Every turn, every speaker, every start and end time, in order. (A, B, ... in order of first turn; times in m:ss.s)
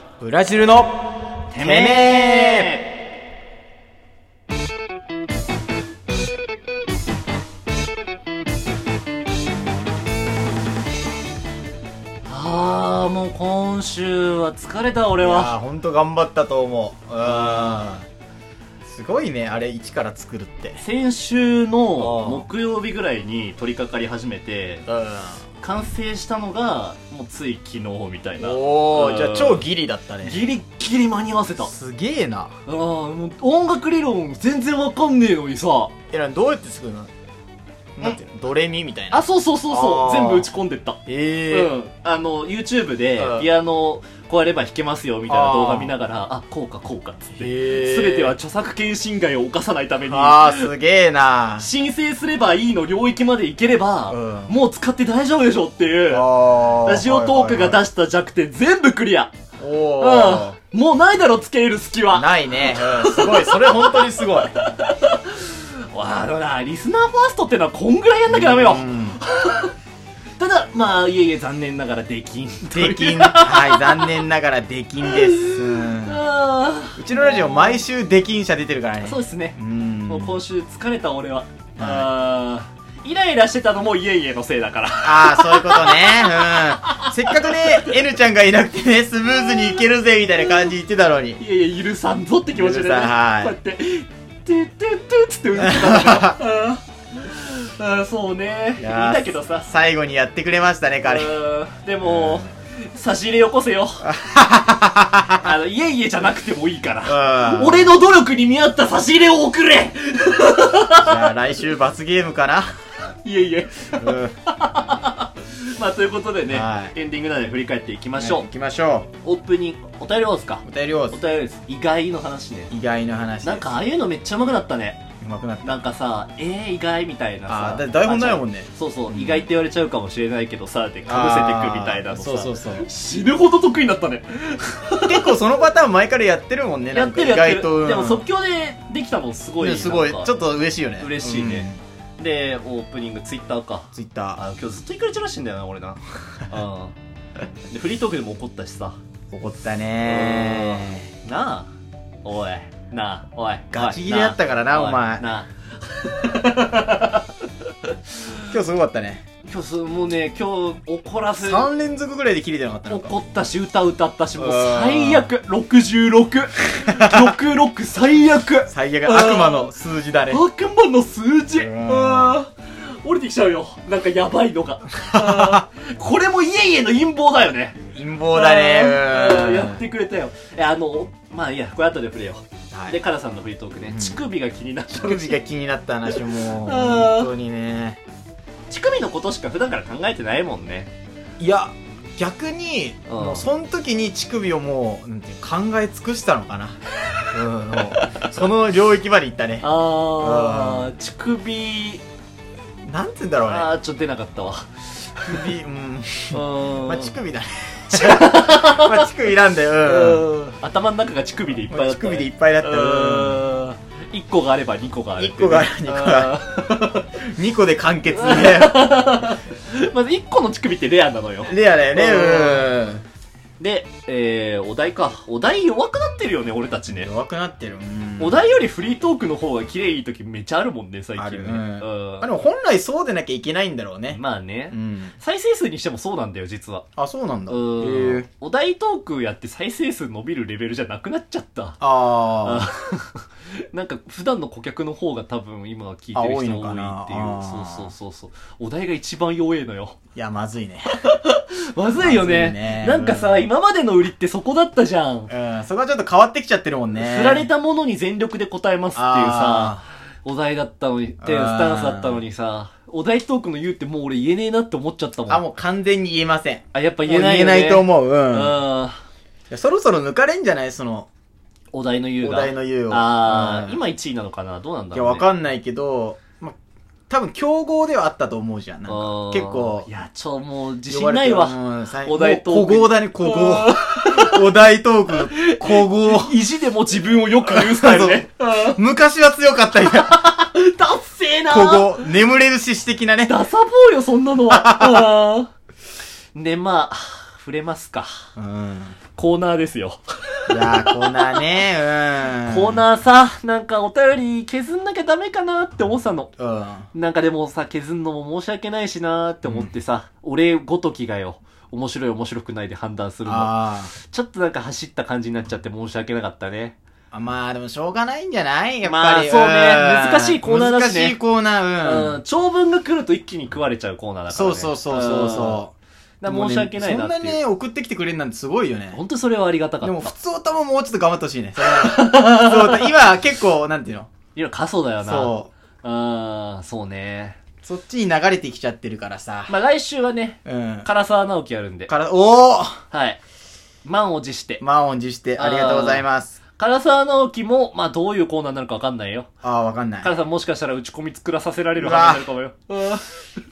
0:00.2-0:02.8 A
0:01.5-0:02.9 B
0:12.3-0:15.5 B
0:15.2-0:18.0 A
0:17.2-0:17.8 B
0:18.8-0:20.8 A
0:20.8-0:24.9 B
0:22.0-0:22.5 A
0:24.9-0:25.4 A
0:25.6-0:29.6 B
0:28.4-0:30.4 A
0:30.2-0:31.7 B
0:31.6-0:32.5 A
0:32.6-0:35.9 B
0:36.1-0:37.1 A
0:38.0-0:40.5 A
0:39.1-0:41.0 B
0:41.0-0:41.7 A
0:41.5-0:50.7 B
0:43.2-0:43.4 A
0:45.3-0:45.9 A
0:47.4-0:48.3 A
0:50.0-0:51.7 A
0:51.6-0:59.3 B
0:54.1-0:54.6 A
0:56.1-0:57.8 A
0:59.6-1:00.6 A
1:00.0-1:09.7 B
1:02.1-1:04.5 A
1:08.3-1:09.2 A
1:10.4-1:14.2 B
1:12.7-1:16.2 A
1:15.0-1:17.8 B
1:17.0-1:20.4 A
1:19.0-1:27.9 B
1:21.8-1:22.1 A
1:25.0-1:31.4 A
1:31.4-1:39.7 B
1:32.5-1:33.5 A
1:35.5-1:36.4 A
1:38.8-1:41.3 A
1:41.0-1:44.1 B
1:42.0-1:42.4 A
1:44.0-1:45.5 A
1:45.3-1:51.3 B
1:47.0-1:47.9 A
1:50.9-1:52.7 A
1:53.2-1:58.4 B
1:54.0-1:54.4 A
1:56.5-1:56.9 A
1:58.2-1:59.1 A
1:59.2-2:02.7 B
2:00.6-2:01.2 A
2:02.7-2:03.8 A
2:03.4-2:05.0 B
2:05.2-2:05.8 A
2:05.6-2:15.4 B
2:07.5-2:09.4 A
2:11.0-2:12.9 A
2:15.0-2:18.2 A
2:16.9-2:20.4 B
2:19.6-2:21.8 A
2:21.0-2:26.9 B
2:23.9-2:24.4 A
2:27.7-2:29.0 B
2:29.3-2:31.1 A
2:30.0-2:31.7 B
2:32.2-2:38.4 B
2:33.7-2:35.2 A
2:38.4-2:39.2 A
2:39.4-2:41.7 B
2:41.4-2:43.1 A
2:42.9-2:49.7 B
2:44.4-2:45.3 A
2:46.8-2:47.3 A
2:48.7-2:50.4 A
2:50.3-3:05.4 B
2:51.5-2:52.4 A
2:55.1-2:55.6 A
2:57.9-2:59.8 A
3:02.7-3:03.0 A
3:03.8-3:04.2 A
3:04.9-3:08.0 A
3:06.1-3:07.3 B
3:08.7-3:10.9 B
3:11.4-3:16.8 A
3:13.1-3:13.4 B
3:17.3-3:20.9 A
3:17.7-3:18.3 B
3:19.6-3:22.0 B
3:22.8-3:23.7 A
3:23.4-3:25.5 B
3:25.3-3:30.2 A
3:26.3-3:27.2 B
3:27.9-3:29.1 B
3:29.8-3:37.1 B
3:31.7-3:33.4 A
3:35.2-3:36.4 A
3:37.2-3:39.0 A
3:38.1-3:42.7 B
3:41.4-3:43.0 A
3:43.6-3:47.1 B
3:46.9-3:48.4 A
3:48.2-3:52.3 B
3:51.2-3:54.2 A
3:54.1-3:56.8 B
3:54.7-3:55.2 A
3:57.0-3:58.3 A
3:57.5-4:10.0 B
4:01.8-4:02.7 A
4:06.1-4:07.9 A
4:10.2-4:11.0 A
4:11.0-4:15.3 B
4:12.0-4:13.5 A
4:15.3-4:17.5 A
4:16.9-4:25.4 B
4:18.9-4:19.8 A
4:21.2-4:22.2 A
4:25.3-4:28.6 A
4:26.7-4:29.0 B
4:29.5-4:31.1 A
4:31.7-4:35.2 B
4:32.2-4:33.8 A
4:34.9-4:36.6 A
4:37.1-4:39.9 A
4:38.9-4:44.5 B
4:40.9-4:46.4 A
4:45.1-4:48.8 B
4:47.4-4:50.3 A
4:49.8-4:52.1 B
4:51.5-4:53.3 A
4:53.3-4:55.5 B
4:54.5-4:55.1 A
4:56.3-4:58.2 B
4:58.4-4:59.0 A
4:59.1-5:01.4 B
5:00.5-5:02.8 A
5:02.4-5:06.3 B
5:06.4-5:06.9 A
5:06.9-5:16.7 B
5:09.4-5:09.7 A
5:13.2-5:13.9 A
5:17.1-5:22.2 A
5:18.8-5:21.2 B
5:21.8-5:25.6 B
5:24.3-5:25.7 A
5:26.2-5:27.4 B
5:26.2-5:29.0 A
5:28.9-5:30.1 B
5:29.8-5:34.1 A
5:31.6-5:33.0 B
5:34.3-5:37.4 B
5:35.0-5:35.5 A
5:37.6-5:39.6 A
5:39.5-5:41.9 B
5:40.4-5:40.9 A
5:41.9-5:42.8 A
5:42.9-5:43.2 B
5:43.8-5:44.6 B
5:44.6-5:46.4 A
5:45.4-5:46.0 B
5:46.6-5:49.3 B
5:49.4-5:50.1 A
5:50.0-5:53.1 B
5:51.8-5:52.3 A